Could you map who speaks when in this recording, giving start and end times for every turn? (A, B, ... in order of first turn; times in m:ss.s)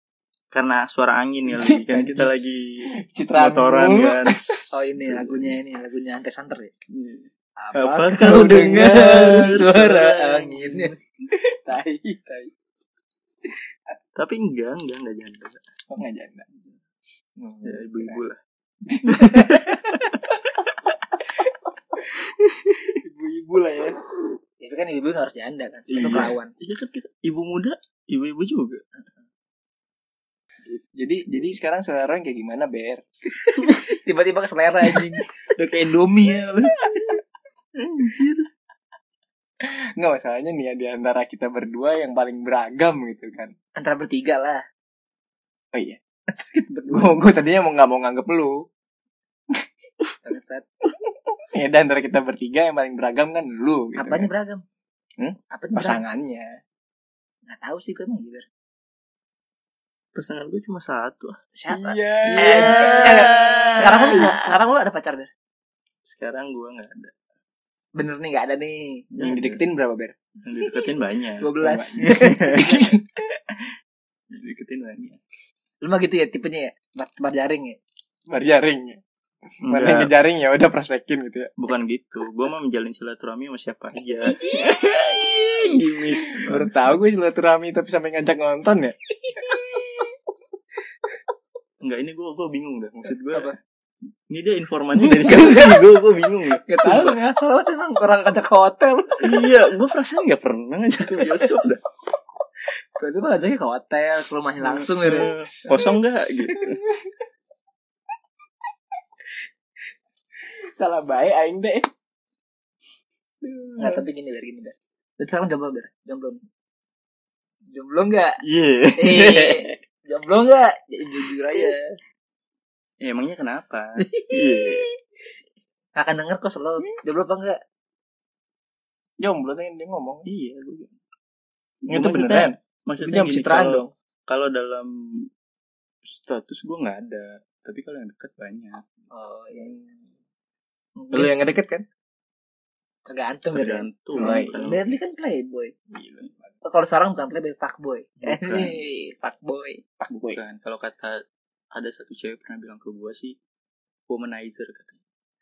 0:00.5-0:05.6 A
0:01.5-0:02.5 B
0:03.0-0:04.6 B
0:04.7-0:06.7 C
0:06.9-0:10.9 A
0:07.6-0:10.9 C
0:08.2-0:10.0 B
0:11.3-0:12.5 B
0:14.2-0:15.6 A
0:15.9-0:16.5 B
0:17.4-0:18.2 B
0:17.6-0:18.4 A
0:18.9-0:20.6 B
0:19.2-0:19.8 A
0:21.2-0:22.0 B
0:22.5-0:22.9 A
0:23.0-0:24.0 B
0:24.6-0:26.5 C
0:25.9-0:28.8 A
0:30.7-0:33.6 B
0:33.6-0:36.8 C
0:37.8-0:38.5 A
0:39.6-0:43.5 B
0:43.8-0:44.6 C
0:45.7-0:46.0 B
0:46.3-0:47.2 C
0:46.9-0:48.6 B
0:50.2-0:50.7 C
0:51.4-0:54.3 B
0:54.0-0:54.6 C
0:55.2-0:56.6 B
0:55.5-0:56.0 C
0:57.5-0:58.4 C
1:00.2-1:01.4 A
1:01.6-1:05.3 C
1:01.7-1:04.3 B
1:02.2-1:04.4 A
1:06.0-1:07.1 A
1:08.0-1:09.1 C
1:09.1-1:09.6 A
1:09.2-1:10.2 B
1:10.4-1:12.9 A
1:11.4-1:13.0 C
1:11.6-1:13.0 B
1:14.3-1:15.2 A
1:15.8-1:17.8 C
1:18.3-1:21.5 B
1:19.6-1:20.1 A
1:21.6-1:27.0 A
1:26.2-1:29.7 B
1:29.3-1:30.0 C
1:31.8-1:33.5 A
1:34.3-1:37.2 A
1:35.1-1:35.8 C
1:36.6-1:39.5 C
1:39.2-1:41.8 A
1:43.0-1:45.3 C
1:44.8-1:46.8 A
1:46.5-1:47.2 B
1:50.4-1:51.9 B
1:53.4-1:54.0 B
1:53.8-1:56.4 C
1:57.7-1:58.4 C
1:58.4-1:59.8 A
1:59.0-2:01.9 C
2:03.0-2:04.9 A
2:04.0-2:04.9 C
2:06.0-2:07.6 C
2:09.2-2:10.3 B
2:10.3-2:10.9 A
2:11.8-2:15.3 A
2:11.9-2:13.9 B
2:16.0-2:18.8 A
2:19.1-2:19.8 C
2:21.0-2:21.3 C
2:21.1-2:21.8 B
2:23.1-2:25.7 C
2:23.5-2:24.9 A
2:24.2-2:24.5 B
2:25.9-2:26.5 B
2:26.6-2:29.8 C
2:28.2-2:28.8 A
2:30.0-2:30.4 B
2:30.2-2:31.2 A
2:31.7-2:33.4 A
2:34.1-2:35.0 A